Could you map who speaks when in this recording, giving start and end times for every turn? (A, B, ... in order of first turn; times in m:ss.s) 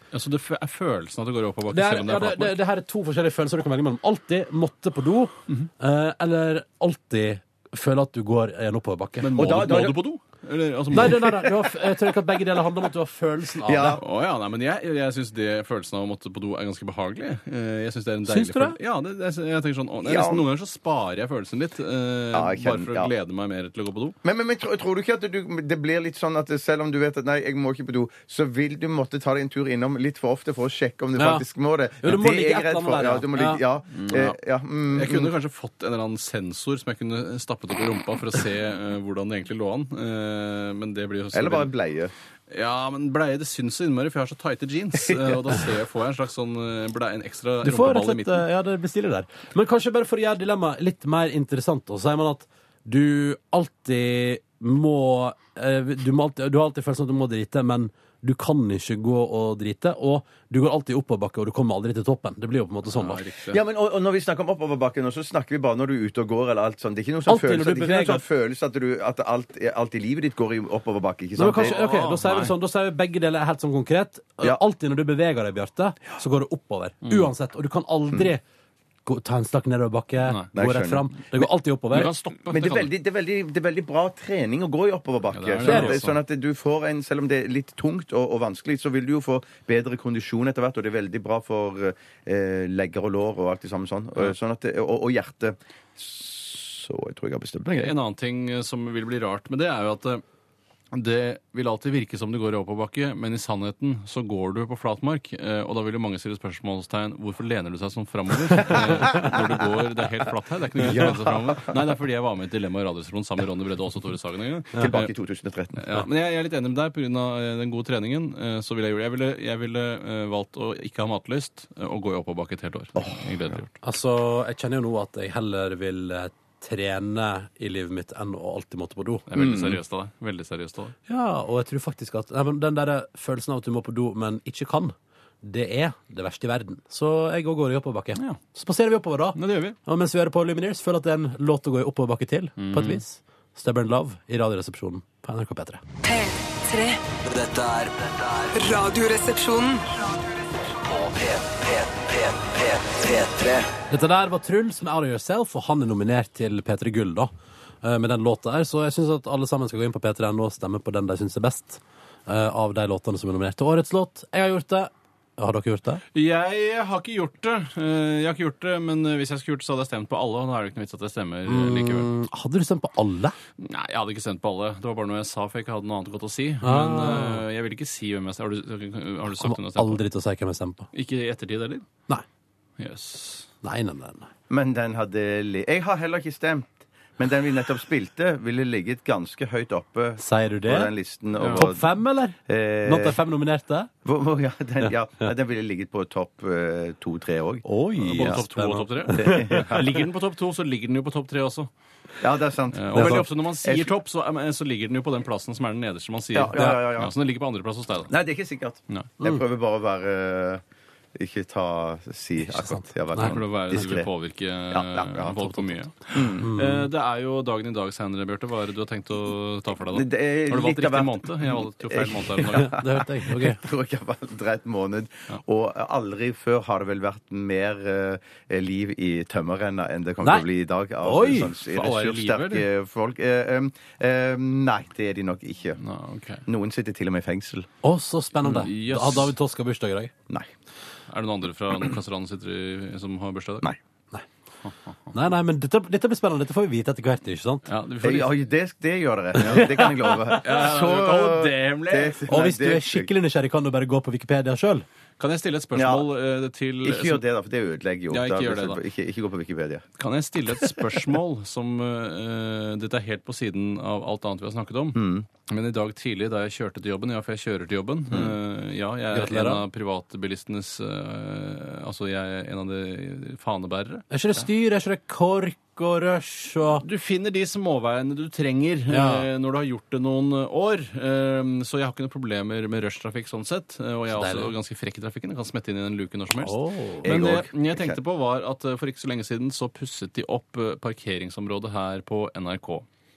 0:00.1-0:02.6 A
0:01.7-0:09.8 B
0:09.2-0:11.5 A
0:09.4-0:10.0 C
0:10.9-0:14.0 B
0:13.7-0:14.0 C
0:13.9-0:24.2 A
0:18.3-0:18.8 B
0:20.0-0:20.5 C
0:22.3-0:23.1 C
0:24.2-0:35.3 C
0:31.2-0:31.5 B
0:32.0-0:33.6 B
0:33.9-0:34.4 A
0:34.9-0:41.7 A
0:41.3-0:42.1 C
0:42.5-0:48.4 A
0:47.6-1:03.3 B
1:02.9-1:03.6 A
1:03.5-1:11.9 C
1:07.3-1:08.2 B
1:11.4-1:18.4 B
1:11.6-1:12.5 A
1:17.1-1:17.3 A
1:19.0-1:22.1 B
1:20.5-1:21.5 C
1:21.9-1:22.9 A
1:22.5-1:37.9 C
1:25.3-1:26.2 A
1:25.6-1:26.0 B
1:37.8-1:40.2 A
1:40.9-1:55.1 A
1:49.1-1:49.4 C
1:50.8-1:51.8 C
1:54.8-1:55.8 C
1:55.8-2:03.8 A
2:03.0-2:03.2 C
2:03.8-2:09.3 B
2:09.3-2:11.0 A
2:09.4-2:09.8 C
2:11.1-2:25.8 B
2:19.4-2:19.8 A
2:22.6-2:23.0 A
2:26.0-2:27.1 D
2:27.2-2:28.6 E
2:28.5-2:30.3 D
2:30.8-2:33.7 E
2:33.9-2:37.3 B
2:37.8-2:46.0 B
2:46.1-2:52.1 A
2:51.5-2:53.4 B
2:53.6-3:00.0 A
2:56.6-2:57.4 B
2:59.3-3:00.9 B
3:00.9-3:01.9 A
3:02.8-3:03.5 A
3:03.6-3:04.3 B
3:04.5-3:13.2 C
3:10.2-3:10.9 B
3:11.4-3:11.7 A
3:11.5-3:13.9 B
3:14.0-3:18.4 C
3:14.8-3:15.3 B
3:17.7-3:19.7 B
3:18.0-3:21.7 A
3:19.1-3:20.0 C
3:22.2-3:23.9 C
3:22.7-3:28.2 A
3:23.0-3:23.2 B
3:26.3-3:27.1 C
3:26.5-3:26.8 B
3:28.1-3:30.6 C
3:31.2-3:34.1 C
3:32.4-3:33.4 B
3:33.2-3:42.8 A
3:34.7-3:35.6 C
3:36.1-3:36.5 C
3:36.4-3:36.9 B
3:39.9-3:55.8 C
3:42.5-3:43.6 B
3:51.0-3:51.5 B
3:51.5-3:52.7 A
3:55.8-3:56.4 A
3:56.5-3:57.7 C
3:57.8-4:00.1 B
3:58.5-3:59.3 A
4:01.1-4:03.7 A
4:05.1-4:07.6 B
4:07.7-4:08.3 A
4:08.0-4:13.1 C
4:09.4-4:10.4 B
4:10.4-4:12.2 A
4:12.3-4:14.8 B
4:15.2-4:17.2 A
4:15.8-4:16.1 C
4:16.8-4:19.8 C
4:18.1-4:18.8 A
4:20.0-4:34.4 A
4:25.0-4:25.3 C
4:29.1-4:29.6 B
4:34.1-4:36.8 B
4:36.8-4:52.9 A
4:38.9-4:39.3 B
4:44.1-4:44.5 B
4:46.4-4:47.2 B
4:47.0-4:48.0 C